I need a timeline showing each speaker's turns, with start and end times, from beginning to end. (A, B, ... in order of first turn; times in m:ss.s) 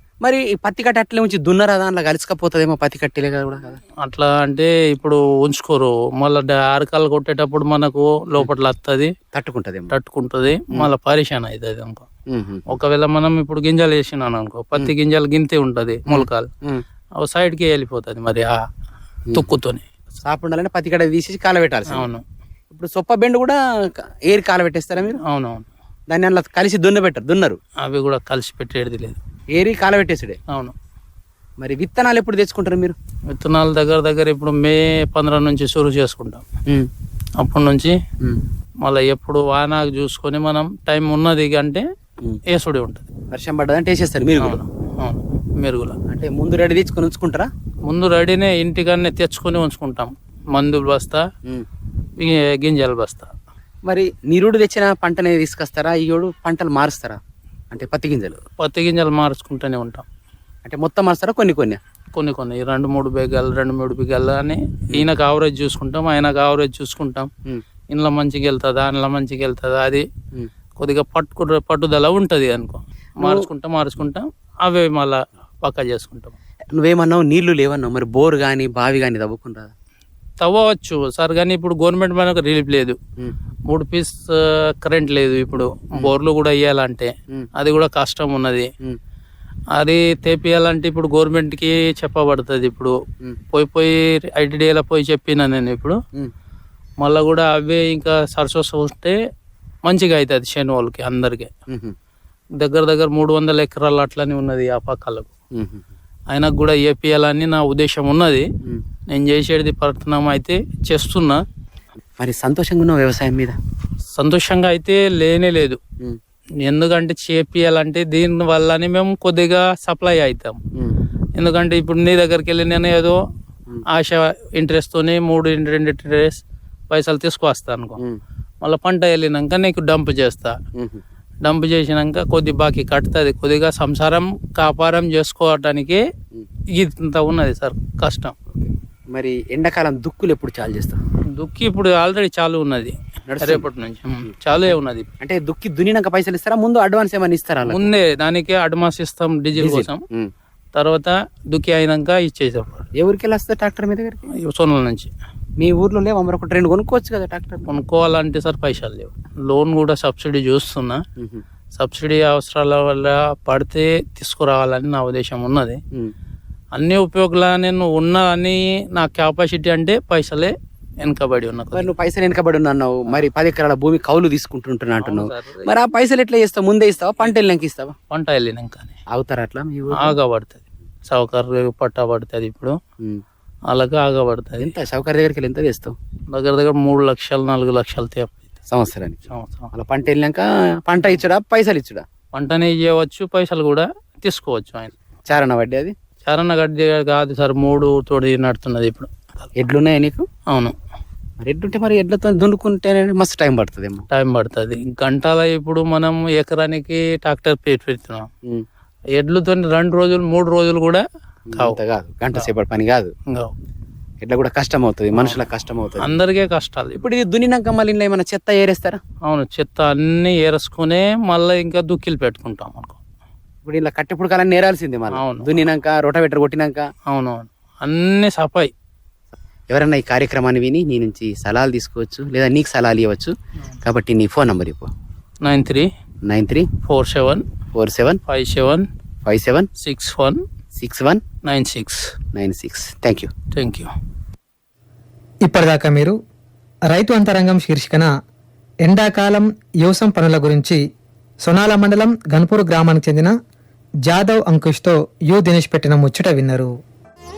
0:00.2-0:03.8 A
0:04.0-0:09.1 B
0:09.3-0:09.9 A
0:09.9-0:12.0 B
0:12.3-0:12.7 A
0:12.7-0:16.5 B
0:16.1-0:16.8 A
0:17.2-0:18.6 B
0:19.3-0:19.8 B
0:20.2-0:22.1 A
0:21.9-0:22.2 B
0:22.7-0:25.2 A
0:25.1-0:25.7 B
0:26.1-0:27.6 A
0:27.8-0:29.2 B
0:29.5-0:30.4 A
0:30.5-0:30.7 B
0:31.6-0:33.0 A
0:33.3-0:36.4 B
0:37.4-0:38.0 B
0:38.8-0:41.8 B
0:42.5-0:43.0 B
0:43.3-0:44.6 A
0:44.4-0:46.0 B
0:46.1-0:47.5 A
0:47.8-0:51.2 B
0:52.2-0:53.3 B
0:53.8-0:57.2 A
0:57.7-0:58.4 A
0:58.6-1:00.1 B
1:00.6-1:01.8 A
1:02.1-1:07.3 B
1:07.9-1:10.0 B
1:10.8-1:16.4 B
1:13.2-1:13.5 A
1:16.7-1:19.7 A
1:20.4-1:23.0 B
1:23.7-1:28.7 B
1:29.7-1:33.0 B
1:33.5-1:36.0 B
1:37.0-1:39.2 B
1:39.8-1:41.5 B
1:42.6-1:45.3 B
1:45.6-1:45.8 A
1:46.3-1:48.5 B
1:49.1-1:51.4 B
1:52.2-1:53.6 A
1:54.2-1:55.8 B
1:56.6-2:00.6 B
2:01.4-2:03.2 B
2:03.9-2:08.0 B
2:08.6-2:10.6 B
2:10.8-2:11.0 A
2:11.4-2:16.0 B
2:16.8-2:18.3 B
2:18.5-2:21.0 A
2:21.4-2:25.1 B
2:23.3-2:23.7 A
2:25.2-2:27.9 A
2:27.7-2:30.0 B
2:29.6-2:30.3 A
2:30.7-2:32.9 B
2:33.0-2:34.3 A
2:34.4-2:35.1 B
2:35.6-2:37.7 A
2:37.7-2:41.0 B
2:41.8-2:45.8 B
2:46.8-2:51.9 B
2:51.7-2:57.9 A
2:55.0-2:55.7 B
2:58.1-2:58.9 B
2:59.1-3:00.2 A
3:00.0-3:02.8 B
3:03.7-3:04.7 B
3:04.6-3:06.0 A
3:06.3-3:08.5 B
3:08.7-3:09.2 A
3:09.3-3:09.7 B
3:09.7-3:12.0 A
3:12.3-3:15.0 B
3:15.3-3:15.9 A
3:16.2-3:19.5 B
3:19.6-3:20.2 A
3:21.4-3:24.0 A
3:24.1-3:28.2 B
3:29.2-3:31.0 B
3:31.5-3:33.1 A
3:34.2-3:36.2 A
3:35.1-3:35.4 B
3:36.0-3:37.0 B
3:37.0-3:39.0 A
3:39.2-3:43.0 B
3:43.6-3:46.8 A
3:45.1-3:45.5 B
3:47.1-3:48.7 B
3:49.7-3:54.9 A
3:55.4-3:55.9 B
3:56.2-3:56.7 A
3:56.8-3:57.4 B
3:57.8-3:58.2 A
3:58.3-3:58.9 B
3:59.2-3:59.7 A
3:59.8-4:00.4 B
4:00.8-4:01.2 A
4:01.4-4:02.0 B
4:02.3-4:03.3 A
4:03.5-4:03.9 B
4:05.4-4:06.2 C
4:06.9-4:08.1 C
4:08.8-4:10.8 C
4:11.4-4:13.3 C
4:14.1-4:16.7 C